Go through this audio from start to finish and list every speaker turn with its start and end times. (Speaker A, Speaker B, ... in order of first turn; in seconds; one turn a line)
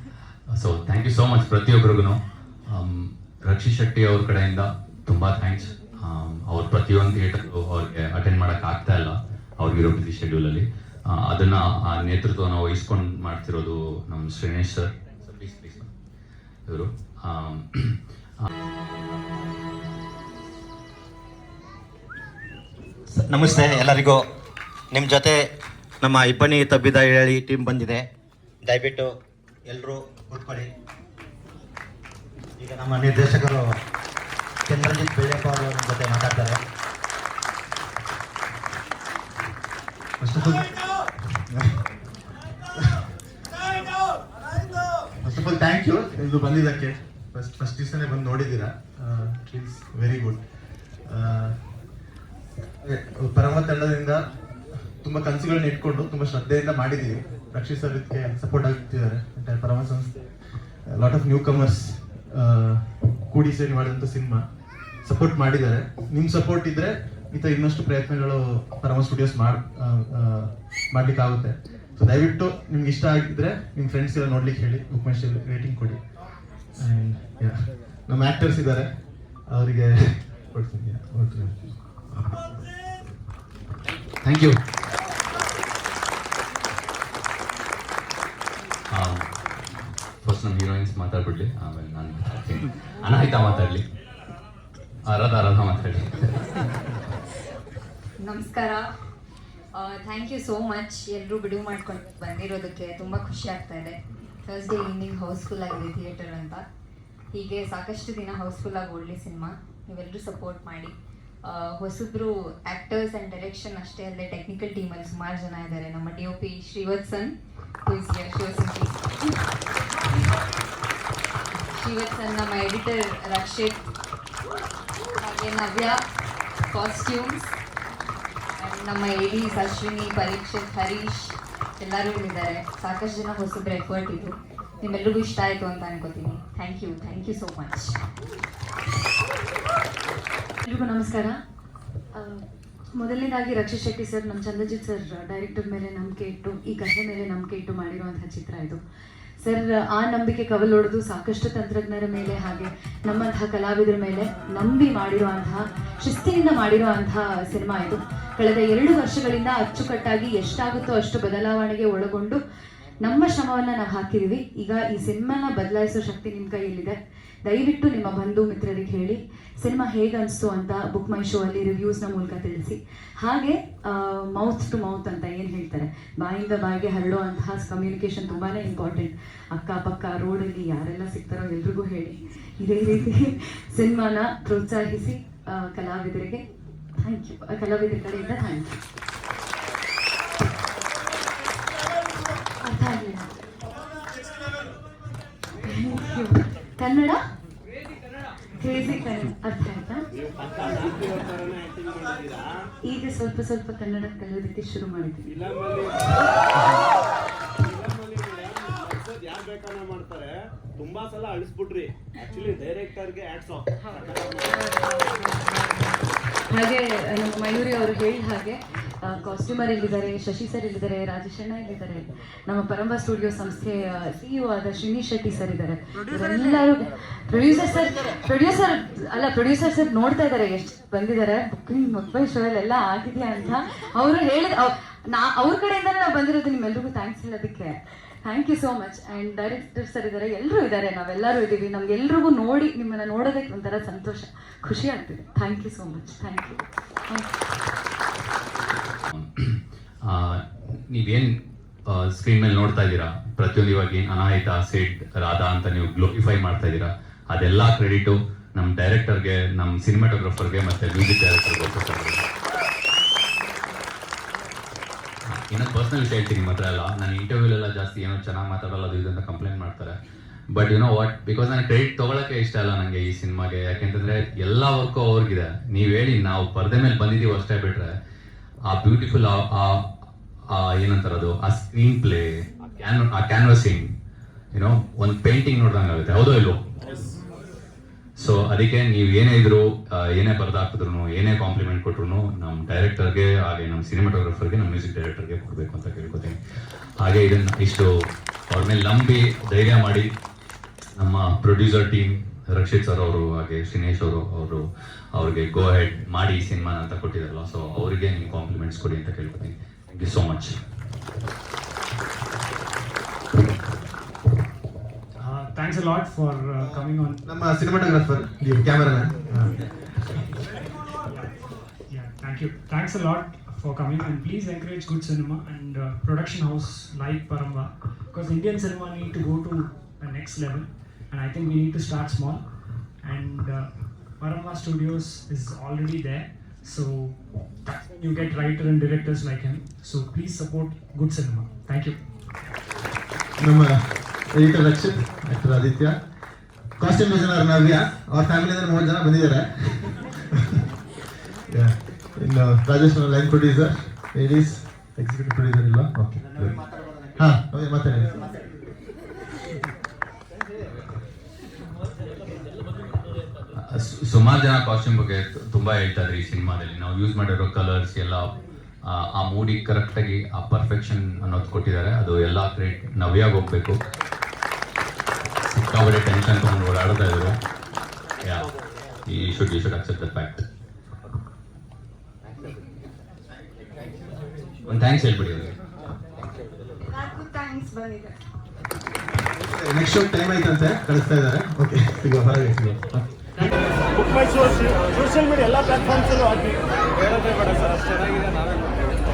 Speaker A: 0.5-15.9
Speaker A: 16.7-18.5
Speaker B: 23.2-24.2
Speaker B: 24.9-25.5
Speaker B: 26.0-28.1
Speaker B: 28.6-30.7
Speaker B: 32.6-33.8
Speaker B: 34.7-36.6
Speaker C: 40.2-41.8
Speaker C: 45.2-51.9
Speaker C: 52.8-82.1
Speaker A: 84.2-84.6
Speaker A: 88.9-89.3
Speaker A: 90.2-93.8
Speaker A: 95.0-96.6
Speaker D: 98.2-98.8
Speaker D: 99.8-106.6
Speaker D: 107.3-117.3
Speaker D: 117.9-119.3
Speaker D: 121.7-123.9
Speaker D: 125.2-126.0
Speaker D: 126.7-127.5
Speaker D: 128.6-138.0
Speaker E: 140.7-141.4
Speaker E: 142.2-142.4
Speaker E: 143.0-148.8
Speaker E: 149.4-162.4
Speaker E: 163.0-186.4
Speaker E: 187.0-188.8
Speaker E: 192.6-193.3
Speaker E: 195.6-197.2
Speaker E: 198.6-200.1
Speaker F: 200.2-202.6
Speaker E: 202.9-205.3
Speaker F: 205.3-206.3
Speaker F: 207.6-214.5
Speaker E: 214.5-247.3
Speaker A: 249.1-251.3
Speaker A: 251.9-262.3
Speaker A: 265.3-270.0
Speaker A: 270.5-277.9
Speaker A: 278.7-279.9
Speaker A: 280.5-283.9
Speaker A: 284.5-286.6
Speaker A: 288.2-296.4
Speaker A: 297.0-297.9
Speaker A: 298.5-300.1
Speaker A: 301.0-310.6
Speaker G: 315.2-317.2
Speaker C: 316.6-319.6
Speaker G: 321.0-342.1
Speaker C: 343.4-346.0
Speaker C: 346.8-350.1
Speaker C: 351.5-358.1
Speaker A: 363.6-368.3
Speaker A: 368.9-373.8
Speaker A: 375.5-377.4
Speaker A: 378.2-378.5
Speaker A: 379.1-380.4
Speaker A: 384.7-385.6
Speaker D: 386.9-388.1
Speaker C: 389.4-393.6
Speaker F: 395.2-396.4